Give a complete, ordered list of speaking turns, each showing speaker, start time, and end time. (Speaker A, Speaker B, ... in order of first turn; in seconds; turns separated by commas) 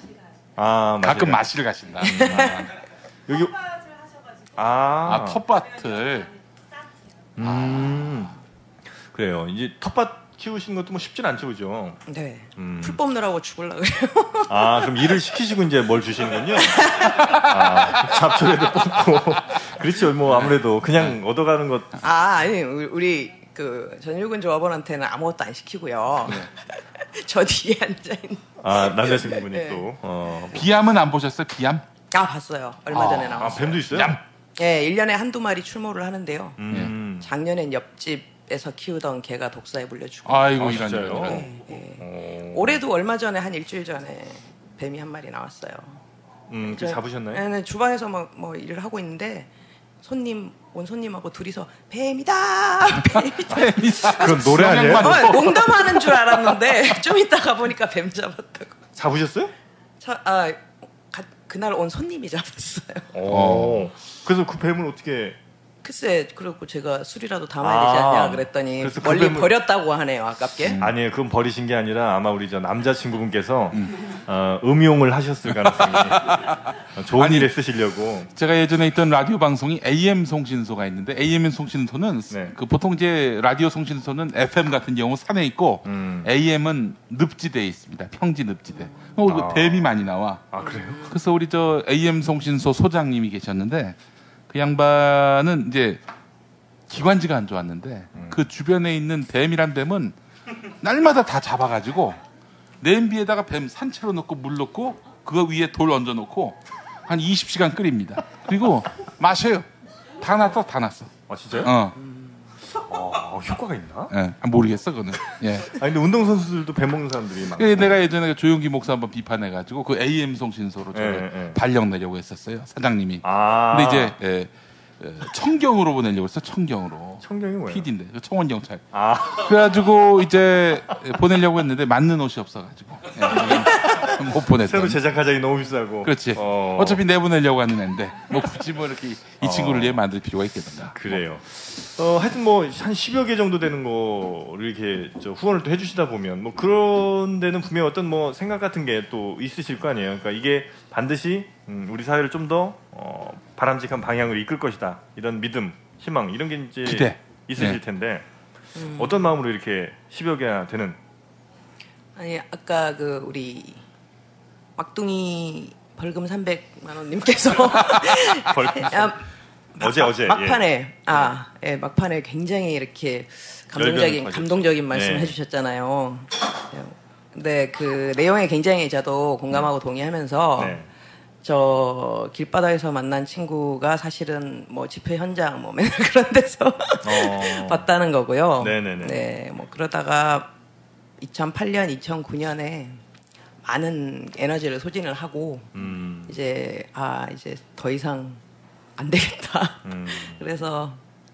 Speaker A: 0.6-1.4, Speaker B: 1.0-2.7, Speaker A: 2.0-2.7, Speaker A: 3.3-3.6, Speaker A: 4.5-5.4, Speaker B: 5.0-6.3, Speaker A: 7.4-8.3, Speaker B: 7.4-8.3, Speaker A: 9.1-12.0, Speaker C: 12.1-15.1, Speaker A: 12.6-13.0, Speaker A: 14.5-22.0, Speaker C: 16.6-18.1, Speaker B: 20.3-21.2, Speaker C: 22.0-29.9, Speaker A: 28.6-30.7, Speaker B: 30.5-31.8, Speaker C: 32.1-34.0, Speaker B: 32.9-34.2, Speaker A: 33.4-34.2, Speaker C: 34.6-46.0, Speaker A: 36.6-37.3, Speaker B: 40.3-41.6, Speaker A: 40.5-42.8, Speaker A: 46.5-47.4, Speaker C: 46.6-49.5, Speaker C: 50.0-54.1, Speaker B: 53.5-56.6, Speaker A: 54.0-55.4, Speaker C: 55.0-58.8, Speaker A: 59.0-59.5, Speaker C: 60.0-63.2, Speaker A: 63.1-65.4, Speaker B: 63.3-63.9, Speaker C: 65.8-70.8, Speaker A: 67.6-69.6, Speaker B: 70.6-70.9, Speaker A: 70.8-78.3, Speaker B: 75.5-76.6, Speaker B: 77.2-77.5, Speaker B: 78.4-94.0, Speaker A: 82.3-82.6, Speaker A: 85.8-86.3, Speaker C: 88.8-89.2, Speaker A: 89.2-89.9, Speaker A: 90.5-91.1, Speaker C: 90.6-91.2, Speaker B: 94.5-96.0, Speaker B: 96.9-100.2, Speaker A: 98.1-98.5, Speaker B: 100.8-102.2, Speaker B: 102.8-109.7, Speaker B: 110.2-112.0, Speaker A: 111.3-111.7, Speaker C: 112.0-112.4, Speaker A: 112.8-114.1, Speaker B: 114.1-115.8, Speaker A: 115.7-118.0, Speaker B: 117.6-135.0, Speaker A: 120.9-121.6, Speaker A: 123.2-124.2, Speaker A: 127.2-127.9, Speaker A: 128.9-129.6, Speaker A: 133.3-137.0, Speaker B: 136.0-141.2, Speaker A: 139.4-140.0, Speaker A: 140.9-158.3, Speaker B: 156.8-157.8, Speaker C: 158.8-159.3, Speaker A: 158.9-161.0, Speaker C: 162.2-163.8, Speaker C: 164.8-169.2, Speaker A: 168.4-169.2, Speaker C: 169.8-180.8, Speaker A: 169.8-171.3, Speaker A: 173.8-175.4, Speaker A: 180.6-180.9, Speaker C: 181.4-190.5, Speaker A: 187.0-187.9, Speaker A: 188.6-189.2, Speaker C: 191.2-193.0, Speaker C: 193.7-198.4, Speaker A: 195.7-196.3, Speaker C: 199.0-201.0, Speaker A: 199.9-200.4